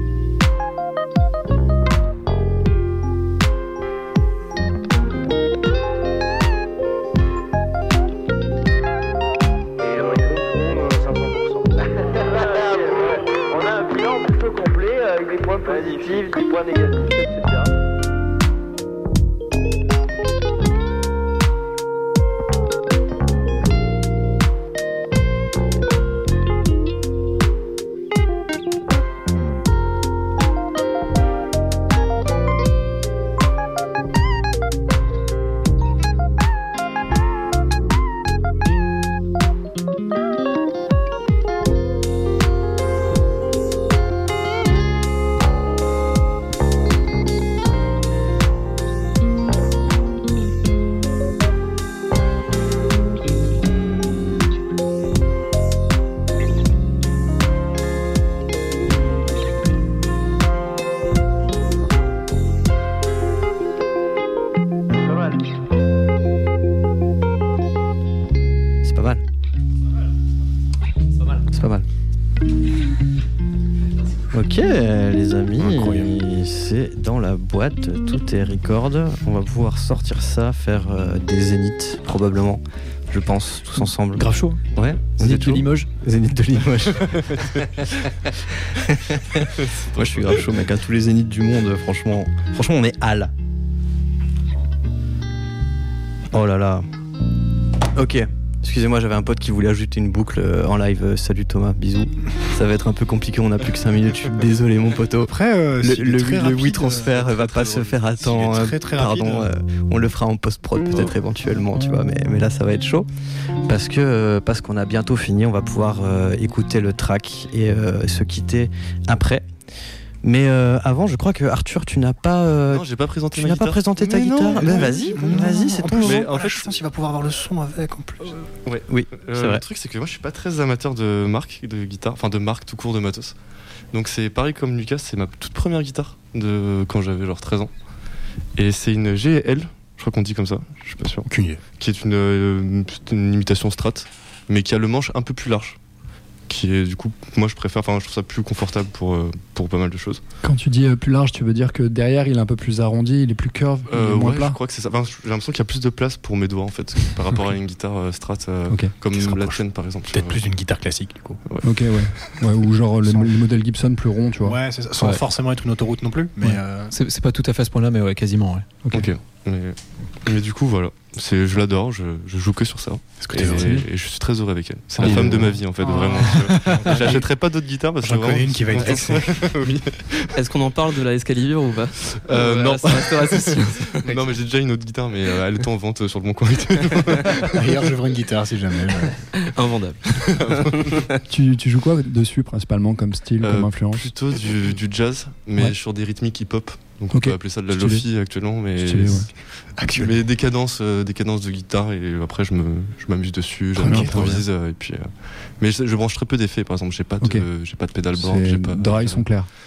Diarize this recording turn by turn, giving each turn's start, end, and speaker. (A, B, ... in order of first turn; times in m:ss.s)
0:09.8-0:17.7 A
1:05.0-1:05.4 A
1:08.8-1:09.2 B
1:11.5-1:11.8 B
1:14.3-1:33.3 B
1:15.6-1:16.1 C
1:24.1-1:25.9 D
1:29.6-1:30.7 E
1:36.3-1:36.8 B
1:37.9-1:53.1 B
1:45.3-1:49.5 C
1:47.3-1:47.9 E
1:53.6-1:59.4 B
2:00.2-2:06.3 B
2:02.7-2:06.8 E
2:04.0-2:08.5 C
2:08.6-2:13.4 E
2:08.9-2:09.6 B
2:13.9-2:17.7 E
2:18.6-2:25.8 E
2:21.3-2:21.6 C
2:26.5-2:30.2 E
2:30.4-2:34.6 F
2:33.9-2:40.4 E
2:39.1-2:41.4 C
2:41.4-2:42.4 E
2:41.6-2:44.6 F
2:43.0-2:43.4 C
2:44.4-2:46.9 C
2:46.9-2:49.1 D
2:48.9-3:00.3 E
2:53.2-2:53.8 C
2:53.4-2:53.8 D
2:54.9-2:57.3 C
2:55.0-2:55.5 D
2:56.2-2:57.2 D
2:58.0-2:59.5 C
3:00.3-3:04.4 G
3:02.2-3:07.5 E
3:06.9-3:07.4 G
3:07.4-3:09.2 C
3:09.3-3:11.2 G
3:10.4-3:10.7 E
3:11.3-3:14.1 F
3:13.4-3:29.3 E
3:17.1-3:18.1 F
3:18.8-3:19.3 F
3:19.8-3:20.2 C
3:23.8-3:24.4 C
3:23.8-3:24.3 F
3:27.2-3:27.5 F
3:28.2-3:29.5 F